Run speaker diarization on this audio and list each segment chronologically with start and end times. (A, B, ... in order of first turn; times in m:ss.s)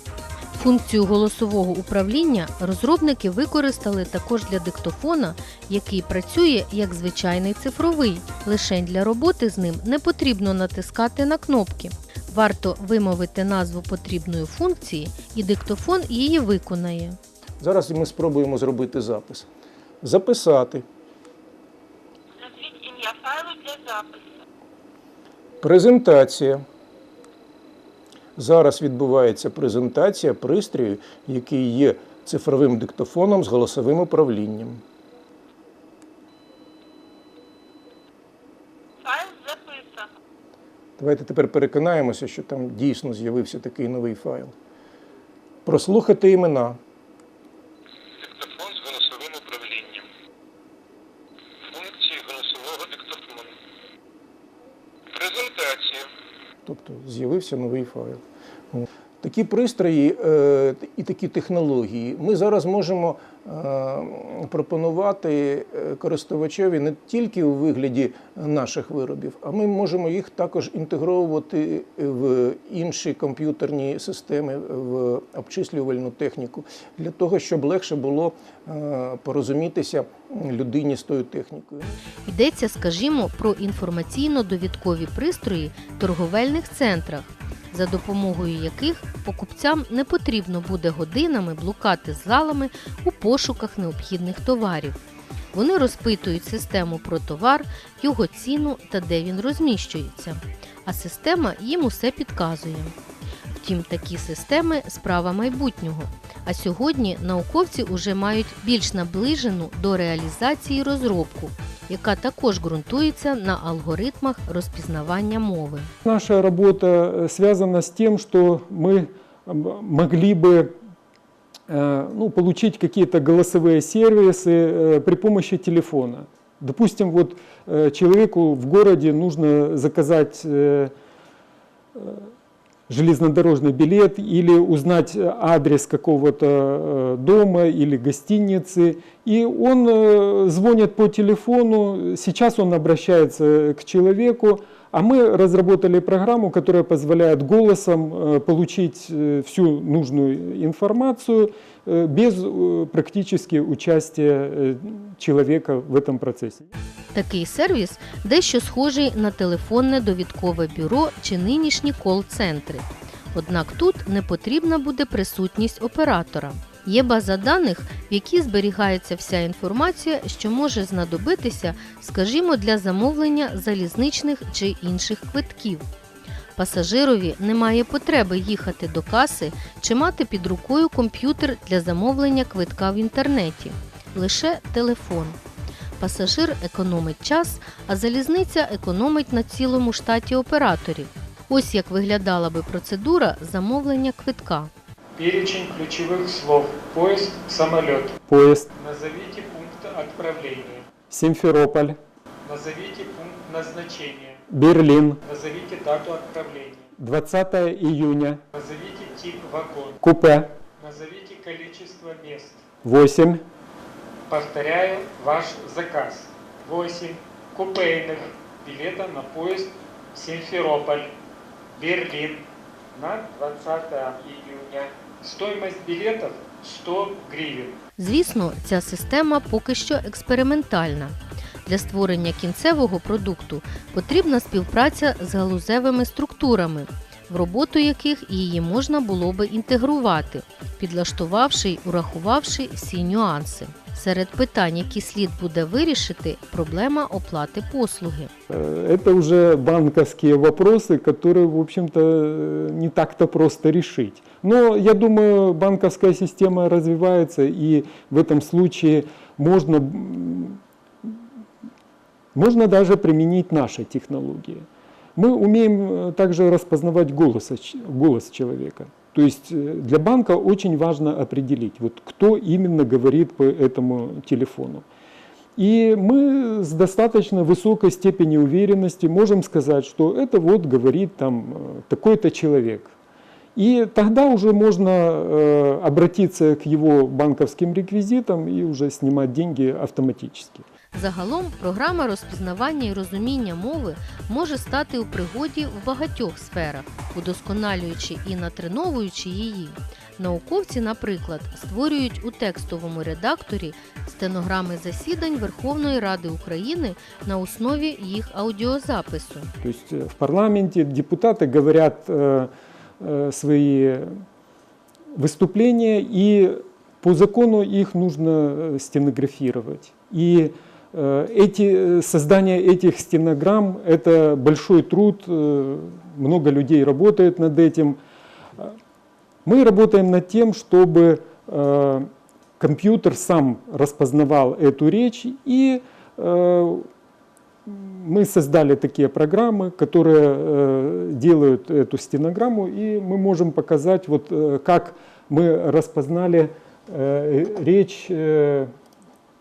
0:00.5-0:17.2 A
0:17.6-0:19.5 B
0:20.0-0:20.8 B
0:22.4-0:24.2 C
0:25.6-0:26.6 B
0:28.4-0:34.8 B
0:39.0-0:40.1 C
0:41.0-0:44.5 B
0:45.6-0:46.8 B
0:48.2-0:50.0 D
0:51.7-0:53.5 D
0:55.1-0:56.1 D
0:56.6-0:58.2 B
0:58.7-1:22.0 B
1:22.2-1:35.0 A
1:35.5-1:42.9 A
1:43.5-1:55.9 A
1:56.0-2:00.8 E
2:01.7-2:10.9 E
2:12.0-2:12.3 E
2:12.9-2:36.6 E
2:37.1-2:55.8 A
2:56.6-3:05.4 A
3:06.0-3:14.7 A
3:15.2-3:18.2 F
3:18.2-3:18.7 E
3:18.8-3:20.8 F
3:21.1-3:22.0 E
3:22.4-3:24.4 F
3:24.5-3:25.2 E
3:25.2-3:26.9 F
3:27.0-3:28.4 E
3:28.5-3:30.0 F
3:30.0-3:30.5 E
3:30.8-3:32.6 F
3:32.8-3:33.4 E
3:34.3-3:41.1 F
3:41.8-3:47.8 F
3:48.0-4:08.3 A
4:08.5-4:21.1 E
4:22.3-4:34.8 E
4:35.6-4:42.9 E
4:43.6-4:50.6 E
4:50.9-5:09.5 A
5:09.6-5:14.2 E
5:15.1-5:28.0 E
5:29.4-5:36.9 E
5:37.6-5:48.7 E